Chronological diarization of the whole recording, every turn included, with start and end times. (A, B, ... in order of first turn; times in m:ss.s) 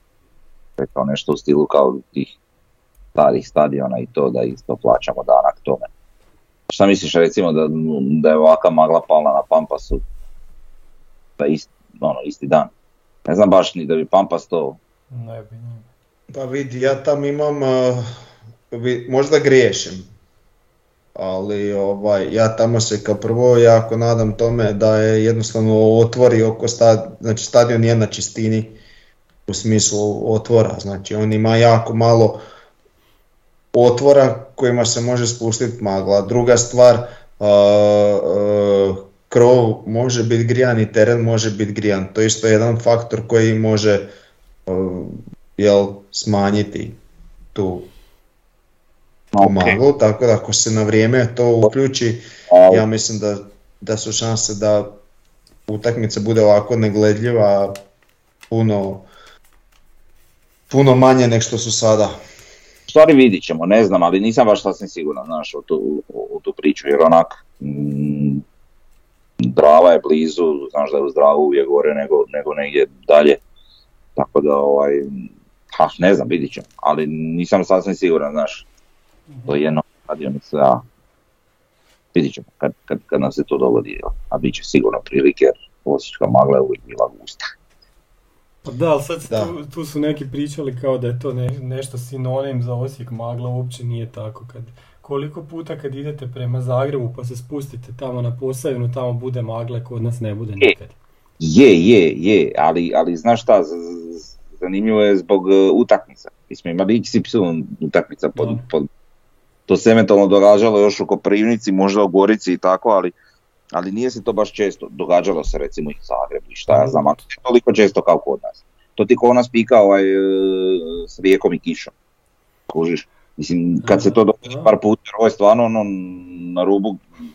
0:00.8-0:02.3 A
0:03.2-0:05.9 A
0:06.7-0:10.0 A
0:11.4-0:12.7 A
0:13.3-0:14.8 A
0:15.1-0:15.9 B
0:16.3-0:18.1 C
0:18.7-0:20.1 C
0:21.2-0:28.8 C
0:29.5-0:32.4 C
0:33.7-0:44.1 C
0:44.7-0:47.0 C
0:47.6-0:47.9 C
0:49.3-0:49.8 A
0:49.4-0:55.0 C
0:52.5-0:52.8 A
0:55.7-0:57.8 C
0:58.5-0:59.1 C
1:00.7-1:02.2 C
1:02.9-1:08.4 A
1:09.4-1:13.4 A
1:14.2-1:18.7 A
1:19.5-1:20.8 A
1:22.1-1:27.5 A
1:28.6-1:41.0 B
1:29.3-1:29.5 C
1:41.4-1:48.9 A
1:48.4-1:48.6 B
1:49.7-1:53.2 A
1:53.7-2:01.9 A
1:56.7-1:57.2 B
2:02.7-2:07.0 A
2:03.8-2:04.7 B